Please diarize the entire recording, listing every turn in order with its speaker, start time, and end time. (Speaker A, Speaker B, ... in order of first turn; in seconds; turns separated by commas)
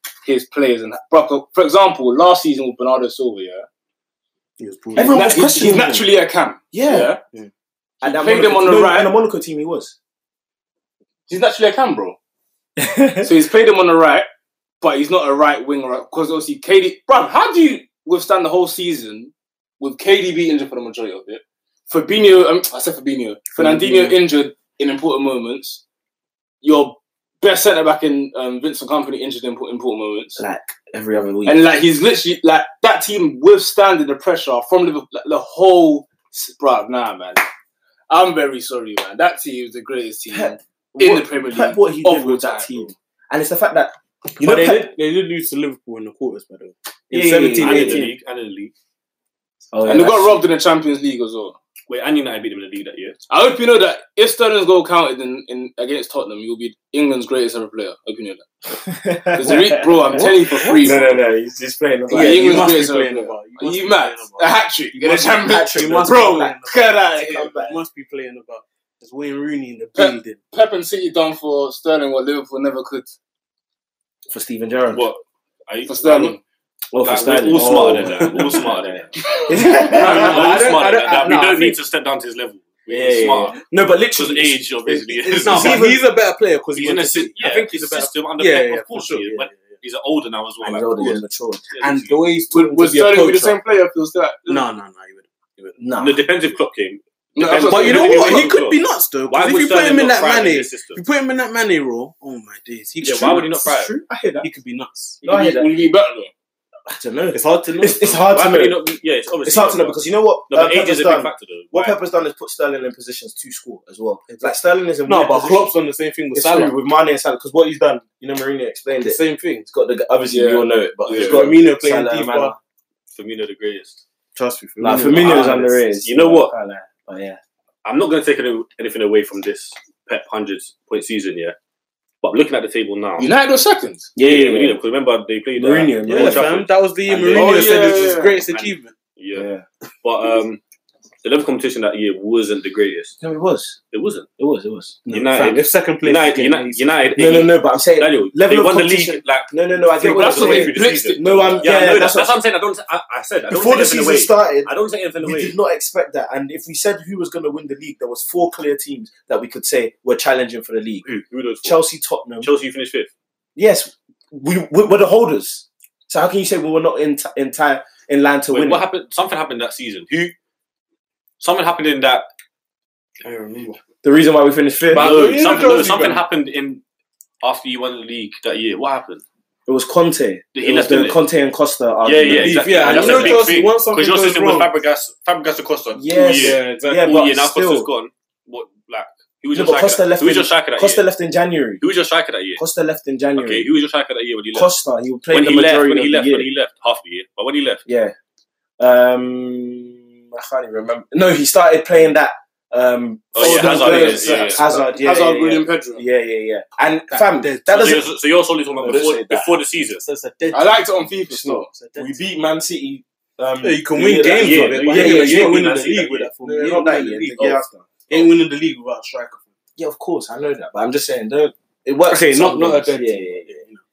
Speaker A: 0.2-3.7, Speaker B: 4.6-5.7, Speaker C: 5.0-6.0, Speaker A: 5.1-7.2, Speaker C: 6.7-7.1, Speaker C: 8.0-9.9, Speaker A: 8.0-9.1, Speaker A: 11.3-12.2, Speaker C: 12.8-13.3, Speaker A: 13.2-14.3, Speaker A: 14.8-25.8, Speaker B: 23.6-24.1, Speaker A: 26.6-30.4, Speaker C: 30.4-31.6, Speaker A: 31.4-37.5, Speaker A: 38.1-42.9, Speaker C: 40.3-44.9, Speaker B: 44.4-48.1, Speaker C: 47.1-48.1, Speaker D: 47.6-48.7, Speaker C: 49.7-50.4, Speaker A: 49.9-51.6, Speaker D: 51.9-53.2, Speaker A: 53.3-58.5, Speaker C: 58.8-62.8, Speaker A: 59.3-61.2, Speaker B: 60.1-61.1, Speaker A: 62.1-67.5, Speaker B: 62.1-70.4, Speaker C: 65.0-66.6, Speaker C: 67.2-67.8, Speaker A: 70.0-73.1, Speaker C: 74.3-75.0, Speaker D: 74.9-76.4, Speaker A: 75.9-76.4, Speaker C: 76.9-80.6, Speaker D: 77.0-79.1, Speaker B: 79.7-81.8, Speaker D: 80.0-83.6, Speaker C: 82.9-86.0, Speaker D: 84.2-85.9, Speaker B: 85.3-89.6, Speaker D: 86.8-91.2, Speaker C: 90.6-91.7, Speaker D: 91.7-92.3, Speaker B: 91.8-93.6, Speaker A: 92.5-94.7, Speaker B: 94.5-95.8, Speaker C: 95.8-96.2, Speaker D: 96.0-101.0, Speaker A: 97.4-98.5, Speaker B: 97.6-103.7, Speaker D: 103.0-103.9, Speaker C: 103.2-104.5, Speaker B: 104.4-105.2, Speaker C: 105.2-105.7, Speaker A: 105.2-106.3, Speaker C: 106.9-108.8, Speaker B: 107.3-108.3, Speaker D: 108.3-112.0, Speaker C: 109.5-115.7, Speaker B: 114.3-116.7, Speaker C: 116.3-122.6, Speaker B: 119.0-119.7, Speaker A: 120.3-121.4, Speaker B: 121.2-122.5, Speaker D: 123.1-124.0, Speaker B: 124.3-125.8, Speaker C: 124.8-127.4, Speaker D: 126.0-126.5, Speaker D: 127.8-131.6, Speaker D: 132.2-133.3, Speaker A: 133.2-134.1, Speaker C: 134.2-134.8, Speaker D: 134.2-137.7, Speaker C: 135.6-136.5, Speaker B: 136.1-138.9, Speaker A: 137.2-138.5, Speaker D: 138.5-139.5, Speaker C: 139.3-139.7, Speaker D: 140.0-140.6, Speaker D: 141.2-143.2, Speaker C: 143.2-143.8, Speaker D: 143.9-144.3, Speaker C: 144.4-145.0, Speaker B: 145.1-146.9, Speaker D: 145.1-155.6, Speaker C: 147.2-152.4, Speaker A: 150.0-151.8, Speaker C: 153.5-154.7, Speaker C: 155.2-161.1, Speaker D: 161.1-161.8, Speaker C: 161.6-162.5, Speaker D: 162.4-163.1, Speaker C: 163.6-168.8, Speaker D: 168.5-170.3, Speaker D: 171.4-172.3, Speaker B: 173.2-173.8, Speaker C: 174.0-175.3, Speaker B: 174.9-176.2, Speaker D: 174.9-176.8, Speaker D: 177.4-179.2, Speaker C: 179.7-183.5, Speaker D: 180.6-181.2, Speaker D: 182.0-191.0, Speaker B: 182.4-184.7, Speaker C: 185.9-187.9, Speaker B: 186.3-187.2, Speaker C: 189.5-191.8, Speaker D: 191.8-192.6, Speaker C: 192.6-193.7, Speaker D: 193.4-194.7, Speaker C: 194.5-196.5, Speaker D: 195.3-197.8, Speaker C: 197.9-198.2, Speaker C: 198.8-208.1, Speaker D: 203.3-204.6, Speaker A: 203.4-206.1, Speaker B: 207.1-208.0, Speaker D: 207.7-210.0, Speaker C: 208.8-209.5, Speaker B: 210.0-211.1, Speaker A: 210.5-211.7, Speaker C: 211.3-215.8, Speaker B: 211.7-212.2, Speaker B: 213.6-219.4, Speaker D: 214.0-216.3, Speaker C: 216.4-217.9, Speaker C: 219.8-223.5, Speaker B: 222.1-223.8